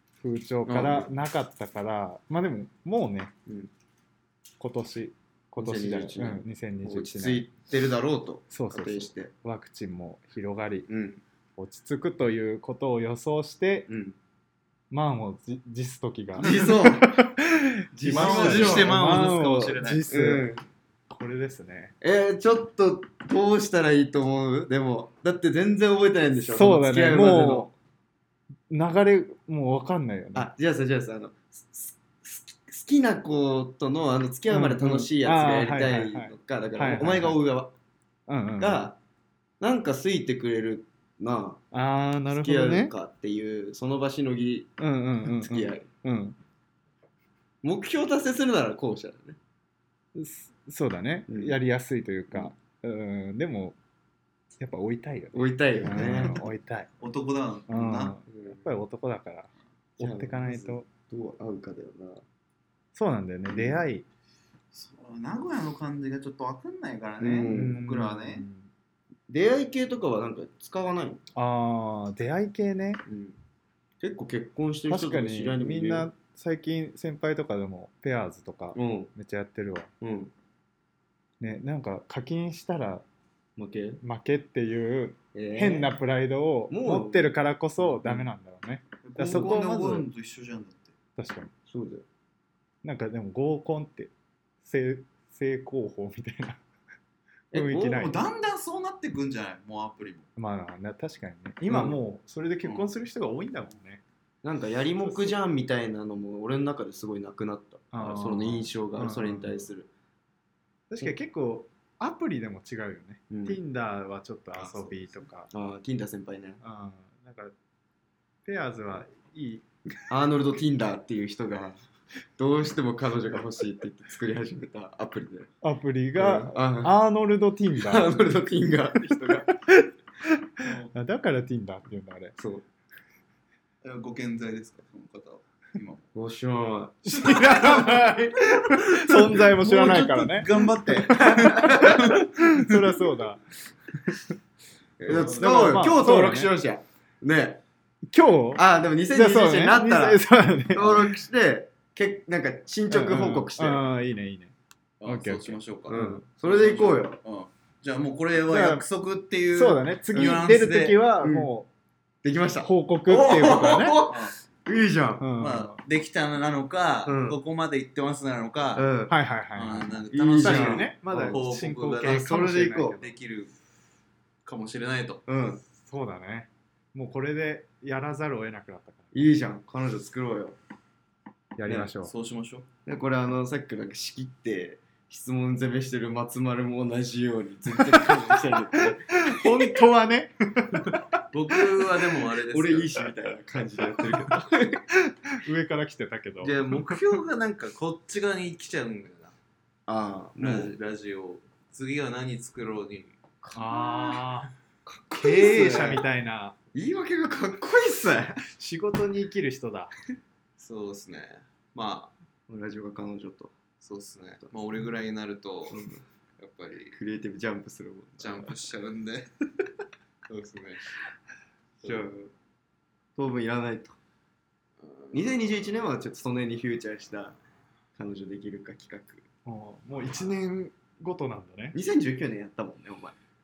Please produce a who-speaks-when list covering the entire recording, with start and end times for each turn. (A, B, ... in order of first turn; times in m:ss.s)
0:00.2-0:03.3 A
0:00.7-0:01.1 B
0:03.5-0:03.7 B
0:04.6-0:07.5 A
0:05.6-0:09.3 B
0:08.5-0:10.9 A
0:10.9-0:11.2 B
0:11.6-0:13.9 A
0:13.9-0:14.2 B
0:14.9-0:20.5 A
0:16.4-0:17.2 B
0:16.4-0:16.7 C
0:17.9-0:19.1 B
0:18.1-0:20.0 C
0:20.1-0:20.6 B
0:21.1-0:22.0 A
0:22.0-0:27.7 B
0:26.4-0:27.7 A
0:28.7-0:30.5 A
0:30.4-0:37.7 B
0:34.5-0:37.4 A
0:38.3-0:38.9 A
0:38.6-0:39.0 B
0:39.6-0:41.6 B
0:41.7-0:42.9 A
0:42.3-0:44.7 B
0:44.8-0:46.4 A
0:45.2-0:45.9 B
0:47.6-0:49.4 B
0:50.2-0:53.8 A
0:51.3-0:51.6 B
0:54.6-0:56.9 A
0:55.3-0:56.5 B
0:57.0-0:58.2 C
0:57.7-1:00.9 A
0:58.3-0:58.6 B
1:00.0-1:02.2 B
1:03.0-1:04.1 A
1:03.5-1:03.8 B
1:04.7-1:08.4 C
1:07.2-1:07.8 B
1:07.5-1:08.7 A
1:09.3-1:11.2 B
1:11.4-1:13.0 A
1:13.1-1:13.4 B
1:14.0-1:16.1 B
1:14.9-1:19.9 A
1:18.7-1:19.1 B
1:20.0-1:20.3 B
1:21.4-1:23.0 A
1:23.6-1:24.0 B
1:24.0-1:30.1 A
1:25.3-1:26.0 B
1:26.7-1:27.4 B
1:28.0-1:28.3 B
1:29.0-1:30.9 C
1:29.2-1:29.5 B
1:31.2-1:31.5 A
1:31.7-1:32.0 B
1:32.8-1:34.1 A
1:34.6-1:36.6 A
1:37.5-1:38.2 A
1:37.5-1:38.1 B
1:37.8-1:40.3 C
1:40.4-1:44.0 A
1:41.7-1:42.0 B
1:44.4-1:49.9 B
1:45.0-1:45.3 A
1:47.9-1:49.6 A
1:50.9-1:55.5 A
1:53.3-1:53.6 B
1:54.6-1:55.2 C
1:55.5-1:56.6 B
1:56.6-1:57.5 A
1:58.4-1:59.7 A
2:00.1-2:01.8 B
2:02.4-2:05.5 B
2:05.6-2:08.2 A
2:06.2-2:07.0 B
2:07.8-2:09.5 B
2:09.3-2:12.4 A
2:10.6-2:10.9 C
2:12.4-2:12.6 B
2:13.8-2:16.0 C
2:16.2-2:18.2 B
2:17.0-2:23.4 A
2:18.6-2:22.8 C
2:21.2-2:22.0 B
2:25.0-2:27.6 B
2:25.1-2:25.7 C
2:25.1-2:26.5 A
2:28.1-2:31.1 A
2:28.6-2:33.8 B
2:32.9-2:36.2 A
2:35.0-2:41.0 C
2:35.9-2:37.2 B
2:38.5-2:38.8 A
2:39.5-2:41.7 A
2:41.2-2:41.5 B
2:42.2-2:45.3 B
2:42.6-2:44.0 A
2:44.1-2:44.4 C
2:45.2-2:45.8 A
2:45.4-2:48.9 C
2:47.0-2:47.4 B
2:48.8-2:49.1 B
2:49.1-2:53.1 A
2:49.6-2:52.3 C
2:50.1-2:51.4 B
2:52.0-2:53.0 B
2:53.0-2:53.5 C
2:54.4-2:55.2 C
2:55.3-2:55.6 B
2:55.8-2:59.3 A
2:59.1-3:00.6 B
3:01.6-3:02.1 A
3:02.0-3:02.7 C
3:02.9-3:09.5 B
3:09.1-3:11.0 A
3:11.3-3:13.1 C
3:12.3-3:14.8 B
3:14.9-3:17.0 A
3:16.4-3:19.4 C
3:19.9-3:20.8 B
3:20.4-3:23.2 C
3:23.4-3:24.3 B
3:23.5-3:24.5 A
3:24.9-3:26.0 B
3:25.1-3:26.6 A
3:26.7-3:28.4 B
3:28.6-3:29.9 A
3:30.6-3:32.1 C
3:32.5-3:33.5 B
3:33.8-3:37.0 C
3:35.7-3:36.0 B
3:36.9-3:38.6 B
3:38.2-3:39.3 C
3:40.3-3:40.9 C
3:41.8-3:42.1 C
3:41.8-3:42.3 B
3:43.2-3:44.0 B
3:44.8-3:45.2 C
3:45.1-3:47.4 B
3:48.0-3:49.2 B
3:49.4-3:51.8 A
3:51.7-3:53.2 B